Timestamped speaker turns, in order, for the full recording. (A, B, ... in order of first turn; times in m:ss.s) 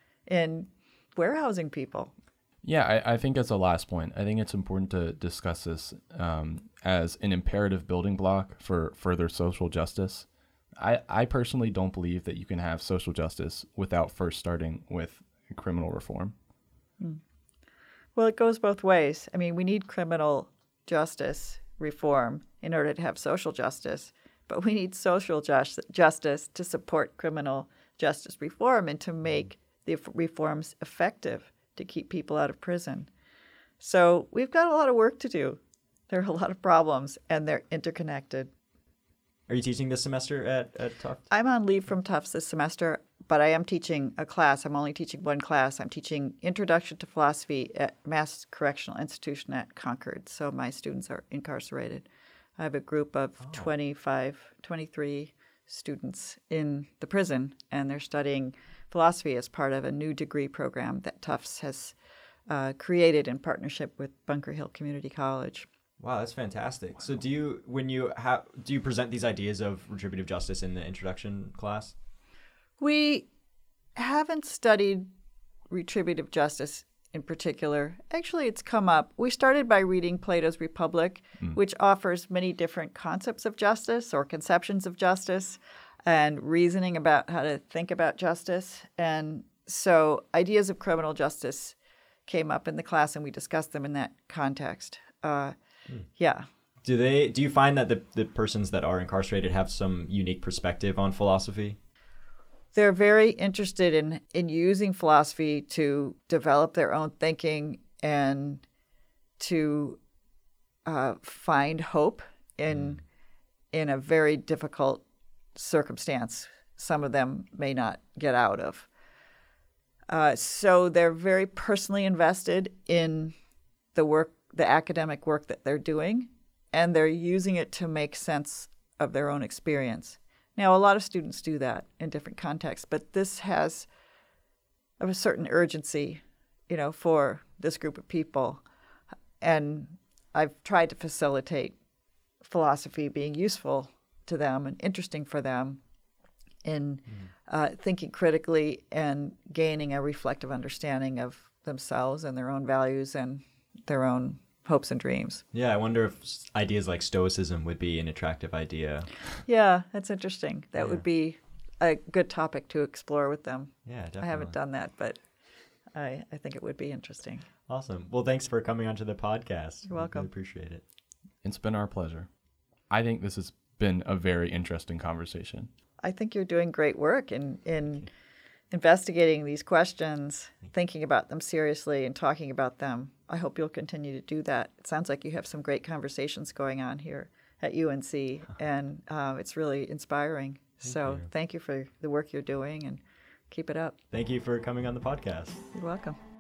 0:00.3-0:02.1 A
0:02.6-0:10.3 B
0:10.8-0:16.4 B
0:18.2-0:33.1 A
0:33.8-0:38.5 A
0:39.5-0:41.3 C
0:41.3-0:52.1 A
0:52.6-1:02.0 A
1:02.5-1:05.7 A
1:06.0-1:12.0 C
1:12.8-1:13.3 A
1:14.0-1:15.1 A
1:15.7-1:31.8 A
1:32.3-1:35.6 A
1:36.2-1:36.5 A
1:36.8-1:41.8 C
1:42.7-1:48.6 A
1:49.4-1:50.0 A
1:50.9-1:53.0 A
1:53.7-1:55.0 A
1:55.6-1:58.9 A
2:00.1-2:03.4 A
2:03.9-2:13.9 A
2:15.0-2:18.6 A
2:19.4-2:21.8 A
2:22.4-2:25.8 A
2:26.6-2:35.4 A
2:35.5-2:39.1 C
2:39.5-2:45.2 A
2:43.8-2:44.5 C
2:46.0-2:47.5 A
2:47.7-2:50.8 C
2:49.9-2:50.3 A
2:51.4-2:52.3 B
2:52.9-2:55.7 B
2:56.0-2:58.1 A
2:58.7-3:14.0 A
3:10.9-3:11.2 C
3:14.1-3:15.6 C
3:15.7-3:16.2 A